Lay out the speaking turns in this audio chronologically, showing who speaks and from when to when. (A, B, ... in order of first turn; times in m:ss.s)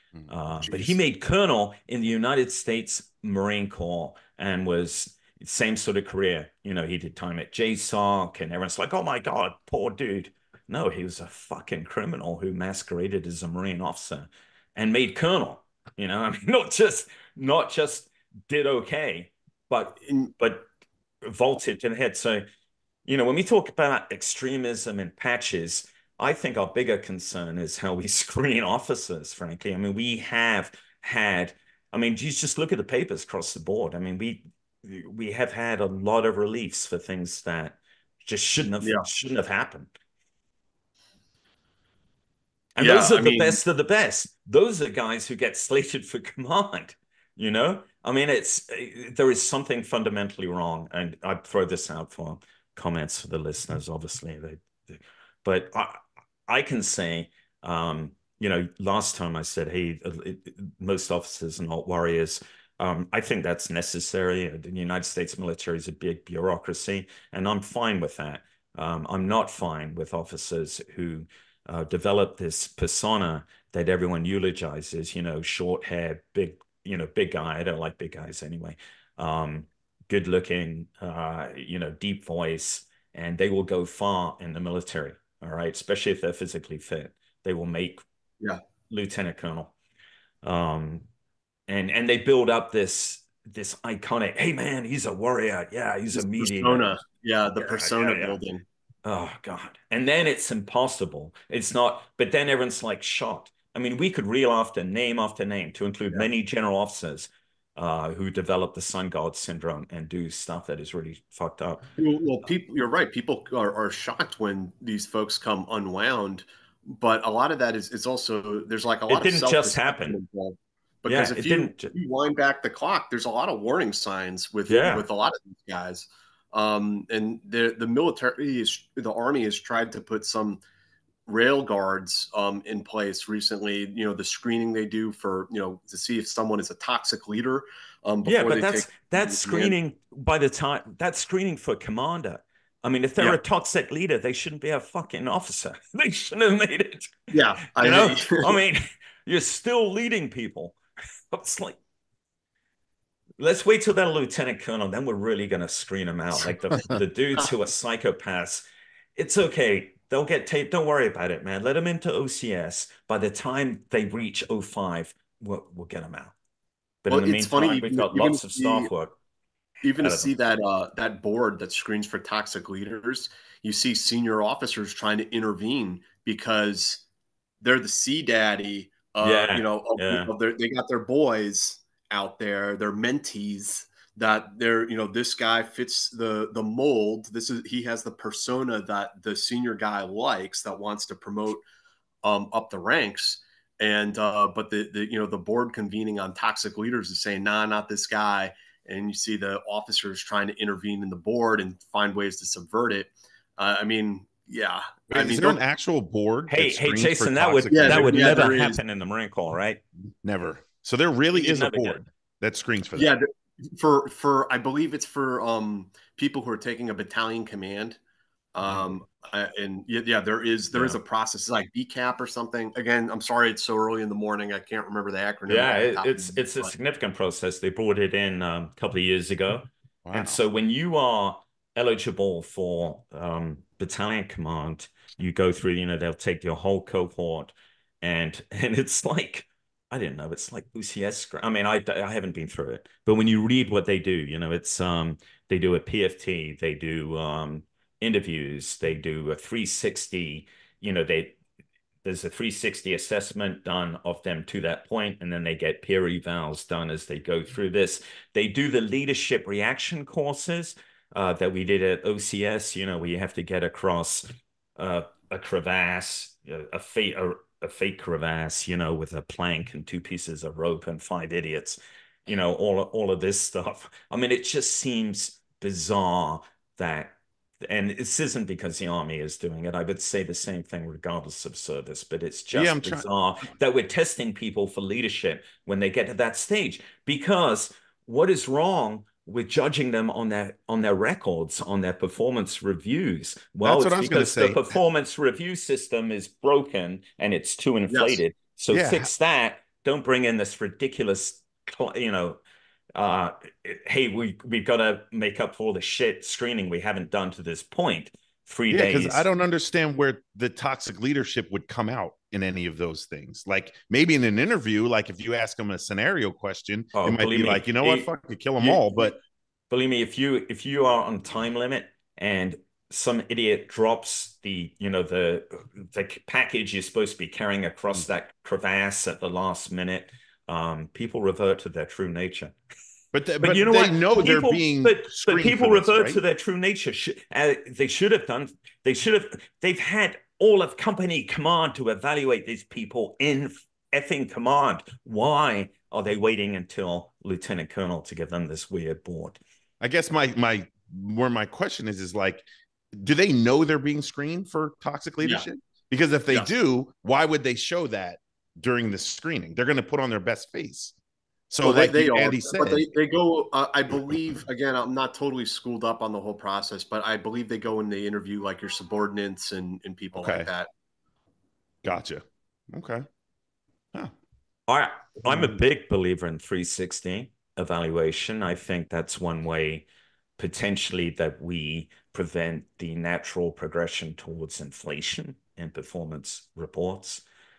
0:00.3-0:20.6 A
0:00.6-0:01.0 B
0:20.0-0:20.3 B
0:21.2-0:22.4 A
0:23.0-0:39.9 A
0:38.8-0:39.1 B
0:42.8-1:28.0 A
0:42.8-0:43.6 B
1:28.9-1:29.7 A
1:30.4-1:31.0 A
1:31.7-1:37.0 A
1:36.1-1:38.6 B
1:37.6-1:38.4 A
1:39.0-1:51.8 A
1:52.0-2:10.6 B
1:59.1-2:00.2 A
2:01.0-2:01.9 A
2:04.7-2:05.0 A
2:11.3-2:19.7 B
2:18.2-2:27.2 A
2:27.3-2:28.6 B
2:27.8-2:30.8 A
2:31.3-2:31.8 A
2:33.4-2:38.6 A
2:39.2-2:46.3 A
2:47.0-2:49.1 A
2:47.1-2:48.9 B
2:49.8-2:57.0 B
2:50.0-2:50.3 A
2:57.6-3:11.6 B
2:59.2-3:00.3 A
3:12.2-3:25.6 B
3:25.1-3:28.5 C
3:26.5-3:29.8 A
3:27.7-3:28.8 B
3:30.2-3:33.1 C
3:31.3-3:32.0 A
3:32.9-3:38.0 B
3:38.5-3:46.7 B
3:45.5-4:11.4 A
3:50.0-3:50.4 C
4:12.0-5:02.4 A
4:42.5-4:43.1 C
4:53.6-4:54.7 C
4:57.9-4:58.2 B
4:58.7-4:59.1 C
5:02.9-5:09.3 A
5:08.7-5:19.2 C
5:16.9-5:18.1 A
5:18.6-5:19.1 A
5:19.7-5:32.5 A
5:33.1-5:36.2 C
5:33.4-5:49.4 A
5:49.8-6:00.9 C
6:01.5-6:02.8 C
6:01.6-6:10.7 B
6:10.2-6:10.5 C
6:11.8-6:13.0 C
6:14.7-6:19.8 A
6:15.2-6:15.6 C
6:20.4-6:27.2 A